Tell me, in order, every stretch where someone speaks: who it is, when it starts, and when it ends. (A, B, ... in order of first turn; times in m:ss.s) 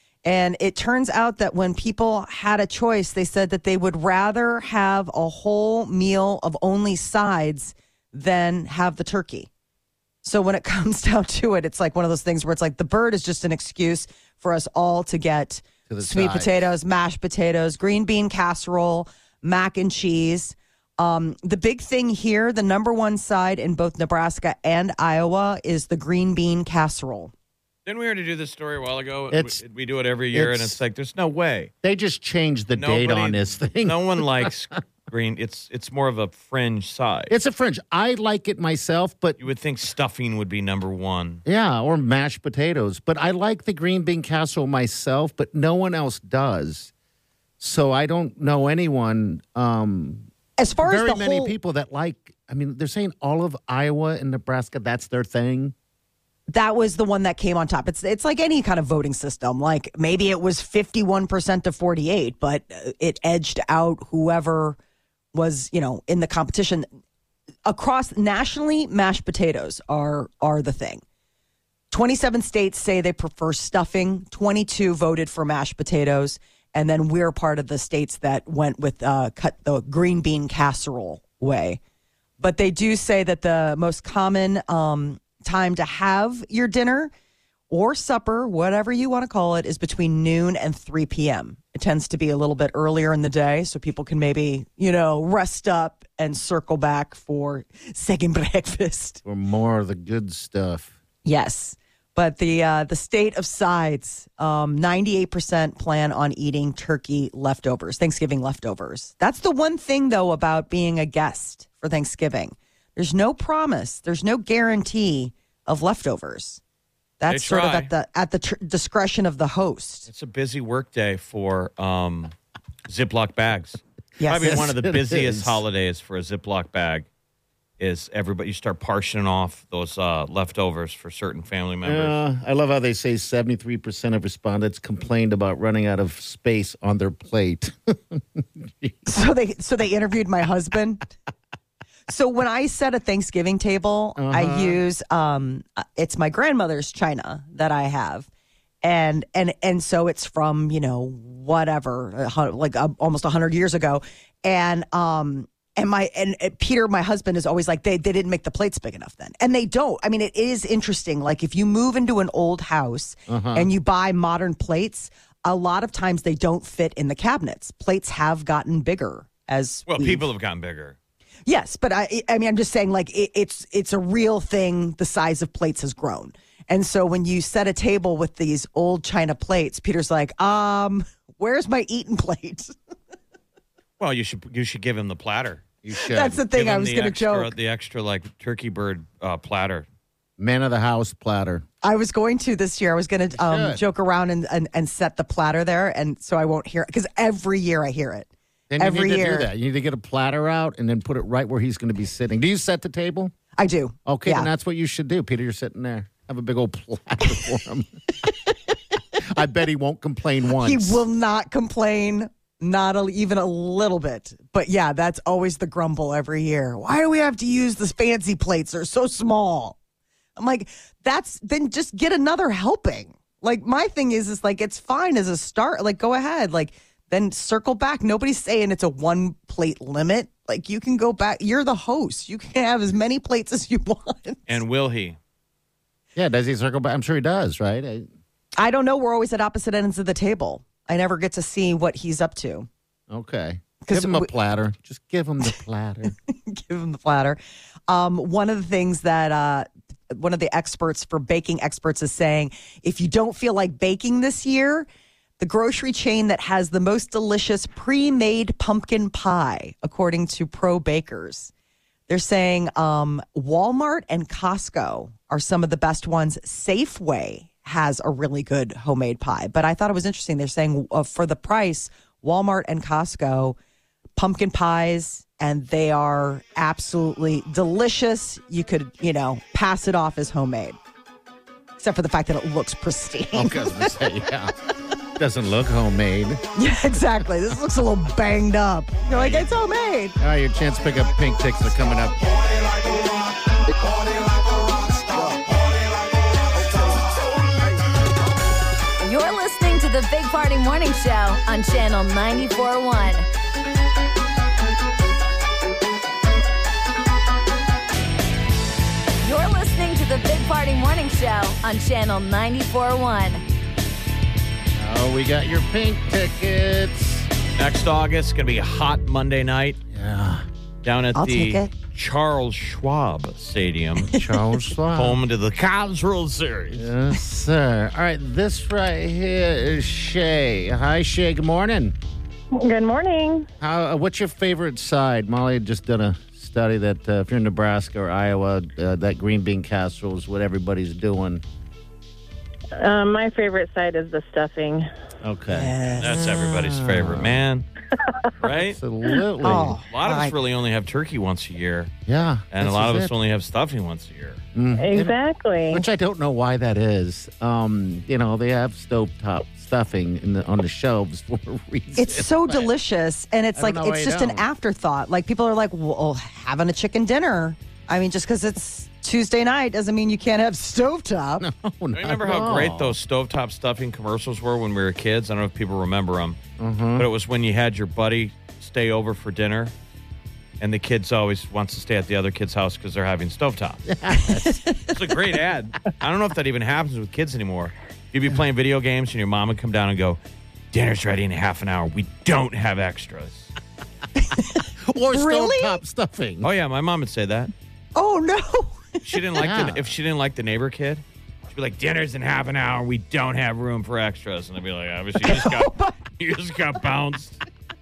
0:00.2-0:09.5 A
0:10.2-0:27.3 A
0:15.9-0:16.7 B
0:27.9-0:31.7 C
0:29.3-0:29.6 B
0:30.3-0:30.8 B
0:31.8-0:34.5 B
0:32.7-0:37.3 C
0:37.3-0:39.4 B
0:39.4-0:41.4 C
0:41.4-0:46.9 B
0:47.6-0:50.3 B
0:50.6-0:51.6 A
0:50.8-0:55.7 B
0:56.5-1:04.8 A
1:05.3-1:06.8 A
1:07.7-1:11.0 A
1:11.9-1:21.8 A
1:22.4-1:27.1 A
1:27.7-1:39.2 A
1:39.2-1:40.9 B
1:41.2-1:56.6 A
1:57.2-2:00.1 A
1:57.3-1:57.9 C
2:00.1-2:02.3 C
2:02.9-2:07.1 C
2:04.2-2:04.6 A
2:04.4-2:05.6 B
2:07.8-2:12.2 C
2:11.8-2:19.2 B
2:19.1-2:21.0 A
2:22.1-2:28.3 A
2:24.2-2:24.8 B
2:28.8-2:50.3 A
2:43.3-2:43.7 B
2:49.9-2:51.0 C
2:51.4-3:02.7 A
3:04.0-3:05.7 C
3:05.8-3:06.4 B
3:06.0-3:07.5 A
3:06.5-3:09.9 C
3:10.4-3:11.6 B
3:11.8-3:19.5 A
3:13.4-3:13.8 B
3:18.7-3:23.3 B
3:23.6-3:24.5 A
3:24.1-3:27.9 B
3:29.3-3:31.0 B
3:30.6-3:39.8 A
3:40.4-3:54.6 A
3:54.5-3:55.2 C
3:56.2-3:58.1 B
3:58.6-4:02.7 A
4:03.1-4:06.1 B
4:03.8-4:04.3 A
4:06.1-4:14.9 A
4:15.4-4:21.5 A
4:22.1-4:33.6 A
4:34.2-4:40.8 A
4:41.8-4:44.0 A
4:43.3-4:44.5 B
4:45.2-4:46.4 B
4:46.6-4:50.2 A
4:50.2-4:52.3 B
4:59.0-5:03.3 D
5:09.2-5:13.4 D
5:14.8-5:17.3 B
5:17.6-5:19.8 C
5:19.9-5:20.5 B
5:20.8-5:24.2 C
5:21.2-5:21.7 A
5:24.1-5:25.2 B
5:24.1-5:24.4 A
5:24.9-5:26.9 C
5:26.7-5:32.0 B
5:32.5-5:33.5 E
5:33.6-5:41.4 B
5:42.8-5:44.9 E
5:45.2-5:47.4 B
5:45.5-5:46.1 A
5:46.0-5:47.6 C
5:48.4-5:48.8 C
5:48.5-5:49.8 B
5:49.4-5:50.4 A
5:49.9-5:51.9 C
5:52.1-5:53.1 B
5:52.5-5:54.4 C
5:54.6-5:55.2 B
5:54.8-5:55.8 E
5:55.7-6:02.7 B
6:02.0-6:11.4 A
6:03.6-6:04.4 B
6:11.4-6:13.0 B
6:11.9-6:16.4 C
6:16.6-6:17.1 B
6:17.0-6:19.7 C
6:20.6-6:23.8 C
6:23.9-6:24.7 B
6:24.2-6:24.9 A
6:24.9-6:30.2 C
6:30.7-6:33.5 C
6:34.2-6:35.8 A
6:34.9-6:36.5 B
6:36.4-6:37.5 C
6:38.0-6:39.4 A
6:39.0-6:47.4 C
6:39.4-6:40.0 B
6:45.2-6:46.0 A